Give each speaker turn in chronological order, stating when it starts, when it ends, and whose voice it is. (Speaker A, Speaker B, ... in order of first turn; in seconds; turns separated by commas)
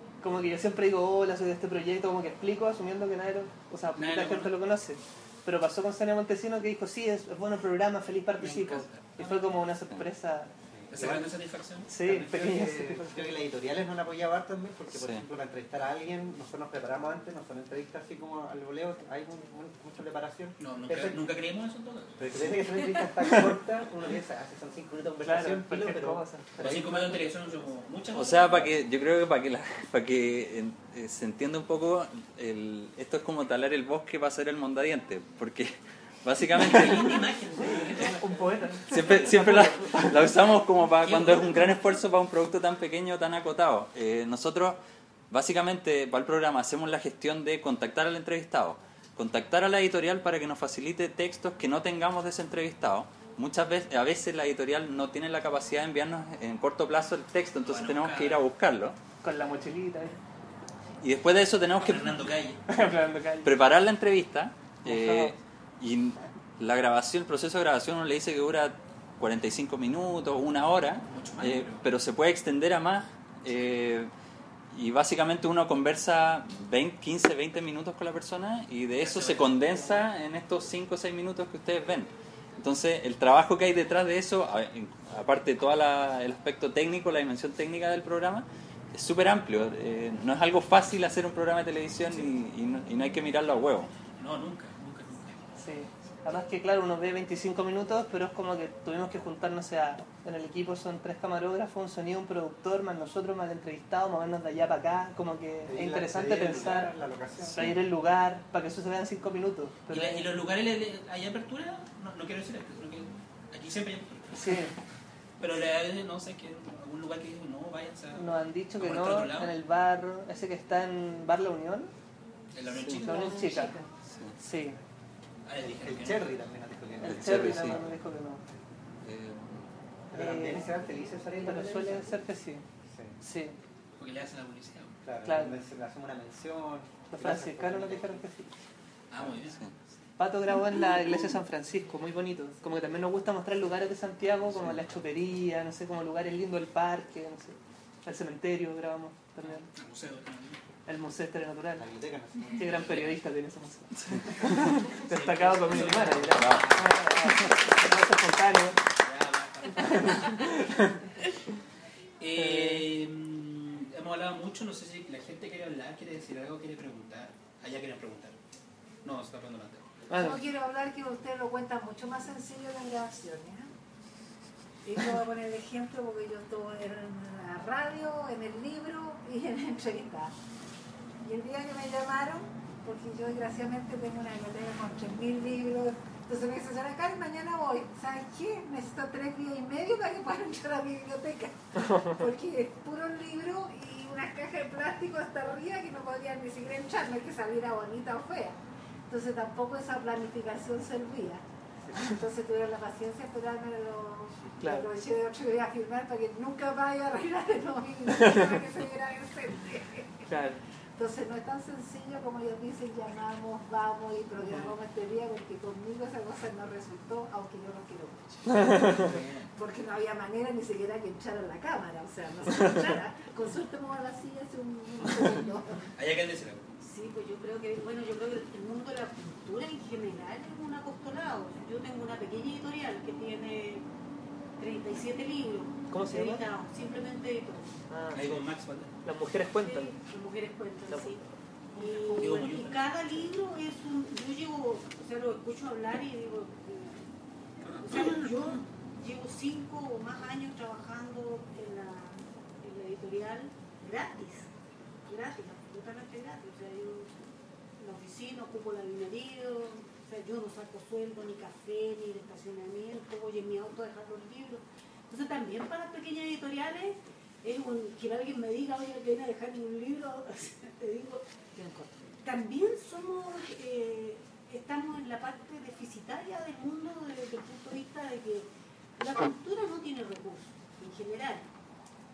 Speaker A: 0.2-10.5, Speaker B: 3.9-4.5, Speaker B: 8.4-9.4, Speaker C: 10.7-11.3, Speaker B: 10.9-12.3, Speaker A: 11.9-13.4, Speaker C: 12.1-21.2, Speaker D: 14.9-15.2, Speaker B: 20.6-22.2, Speaker C: 22.2-27.2, Speaker A: 25.2-27.0, Speaker B: 26.6-28.8, Speaker D: 28.1-37.2, Speaker B: 36.5-38.6, Speaker A: 37.7-40.1, Speaker D: 38.9-44.8, Speaker B: 41.0-41.7, Speaker D: 45.3-59.0, Speaker B: 57.6-58.4, Speaker A: 59.2-60.2, Speaker D: 61.0-62.2, Speaker B: 61.8-62.6, Speaker A: 62.7-63.5, Speaker D: 63.4-74.1, Speaker A: 64.8-65.3, Speaker B: 71.1-71.8, Speaker D: 74.7-93.9, Speaker B: 79.0-80.0, Speaker B: 94.2-95.4, Speaker A: 95.6-106.9, Speaker C: 105.7-107.6, Speaker A: 107.5-110.3, Speaker B: 109.9-114.6, Speaker A: 114.3-114.7, Speaker B: 115.4-119.5, Speaker A: 118.2-121.9, Speaker B: 122.5-123.5, Speaker A: 123.0-123.8, Speaker D: 124.0-124.3, Speaker A: 124.4-124.8, Speaker B: 125.5-126.3, Speaker C: 125.8-128.0, Speaker A: 127.0-128.4, Speaker D: 127.1-127.8, Speaker D: 129.0-129.7, Speaker C: 130.1-132.3, Speaker A: 130.1-130.7, Speaker A: 131.4-132.6, Speaker C: 132.9-133.2, Speaker A: 133.2-133.6, Speaker B: 134.0-134.9, Speaker C: 135.0-138.2, Speaker A: 135.2-135.5, Speaker A: 137.1-138.5, Speaker B: 139.1-139.7, Speaker A: 140.2-149.7, Speaker B: 149.4-150.6, Speaker A: 150.8-151.8, Speaker C: 151.7-152.9, Speaker A: 152.5-158.8, Speaker B: 152.8-153.1, Speaker D: 153.9-154.7, Speaker B: 155.1-157.4, Speaker D: 155.7-156.7, Speaker B: 159.0-160.6, Speaker A: 159.9-160.9, Speaker B: 162.2-168.3, Speaker A: 162.4-162.8, Speaker B: 169.0-169.9, Speaker A: 170.1-170.4, Speaker E: 170.1-173.7, Speaker E: 174.8-180.3, Speaker E: 181.2-198.6, Speaker E: 199.1-210.3, Speaker A: 204.6-204.9, Speaker A: 210.3-210.6, Speaker E: 211.0-225.9, Speaker A: 214.4-214.7, Speaker B: 218.7-219.5, Speaker B: 225.9-226.7, Speaker F: 226.8-233.8, Speaker F: 234.6-237.7, Speaker A: 235.9-236.4, Speaker A: 237.9-238.3, Speaker B: 238.1-238.9, Speaker A: 239.0-239.9, Speaker F: 239.6-241.2, Speaker A: 240.9-241.2, Speaker F: 241.7-247.1, Speaker B: 241.7-243.3, Speaker F: 247.8-254.5, Speaker F: 255.1-257.2, Speaker F: 257.8-271.2, Speaker E: 271.5-271.9, Speaker F: 272.2-281.5